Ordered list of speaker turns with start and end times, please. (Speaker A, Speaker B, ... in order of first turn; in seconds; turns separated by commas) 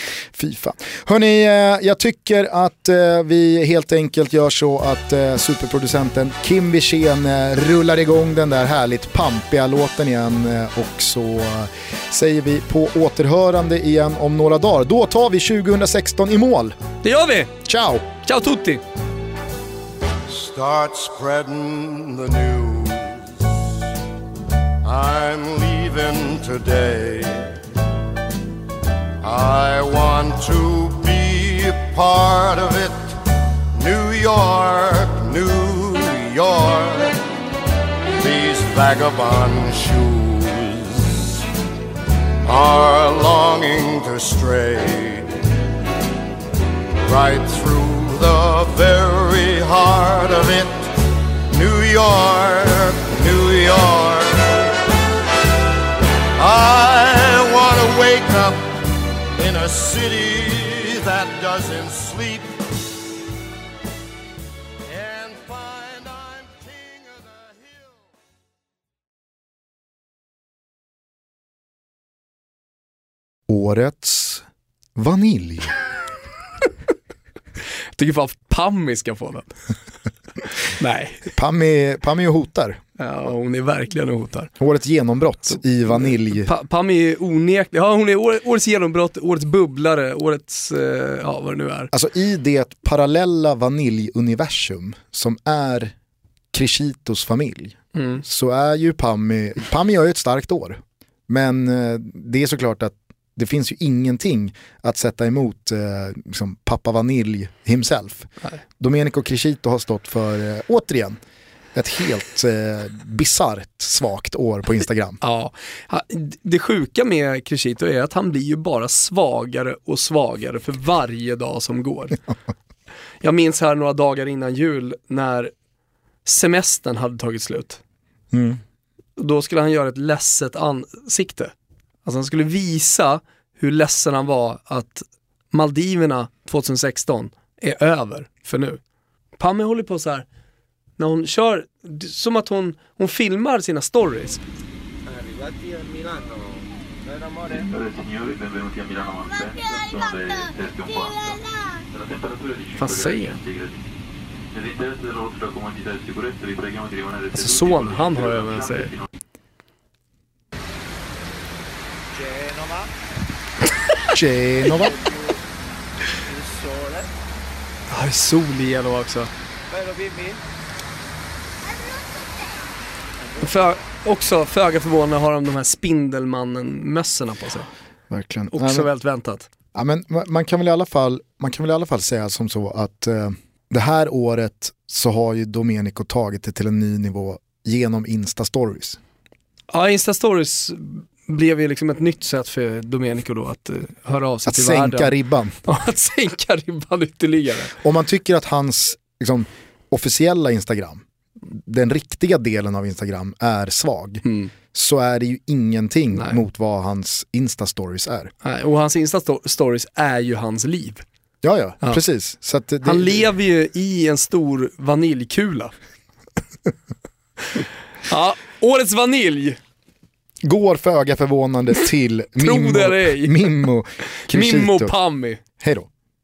Speaker A: 0.3-16.7, Speaker B: 17.0-17.5, Speaker A: 17.6-18.1, Speaker B: 18.2-18.8, Speaker C: 20.3-23.3, Speaker C: 24.8-27.5, Speaker C: 29.2-33.2, Speaker C: 33.7-37.2, Speaker C: 38.1-41.2, Speaker C: 42.4-45.3, Speaker C: 47.0-50.9, Speaker C: 51.5-54.7, Speaker C: 56.4-62.6, Speaker C: 64.8-68.1, Speaker A: 73.5-74.4, Speaker A: 75.0-75.8, Speaker B: 78.0-79.5, Speaker B: 80.6-81.3, Speaker A: 81.2-82.8, Speaker B: 83.0-84.5, Speaker A: 84.6-86.5, Speaker B: 86.1-91.9, Speaker A: 91.9-95.9, Speaker A: 96.5-111.2, Speaker B: 97.9-98.2, Speaker A: 111.7-115.2, Speaker B: 115.2-122.2, Speaker B: 123.2-125.5, Speaker B: 126.2-127.8, Speaker A: 128.3-128.6, Speaker B: 129.2-131.5, Speaker B: 132.0-138.8, Speaker B: 139.4-140.2, Speaker B: 141.0-144.4, Speaker D: 145.1-147.7, Speaker E: 147.5-153.8, Speaker B: 152.8-153.4, Speaker E: 154.5-159.0, Speaker B: 157.3-158.9, Speaker D: 162.1-162.9, Speaker A: 164.1-165.0, Speaker D: 164.7-165.4, Speaker D: 166.2-167.1, Speaker B: 167.9-169.3, Speaker D: 169.7-170.4, Speaker D: 173.4-173.7, Speaker B: 173.4-177.7, Speaker A: 178.1-178.9, Speaker B: 178.5-179.5, Speaker A: 179.7-189.0, Speaker B: 189.7-195.1, Speaker A: 194.4-195.6, Speaker B: 195.6-197.7, Speaker A: 197.8-208.3, Speaker B: 204.2-204.5, Speaker B: 206.1-206.4, Speaker B: 208.4-211.0, Speaker A: 211.4-213.2, Speaker B: 212.8-215.7, Speaker B: 218.1-219.6, Speaker A: 220.4-225.9, Speaker B: 222.4-223.4, Speaker B: 224.3-225.4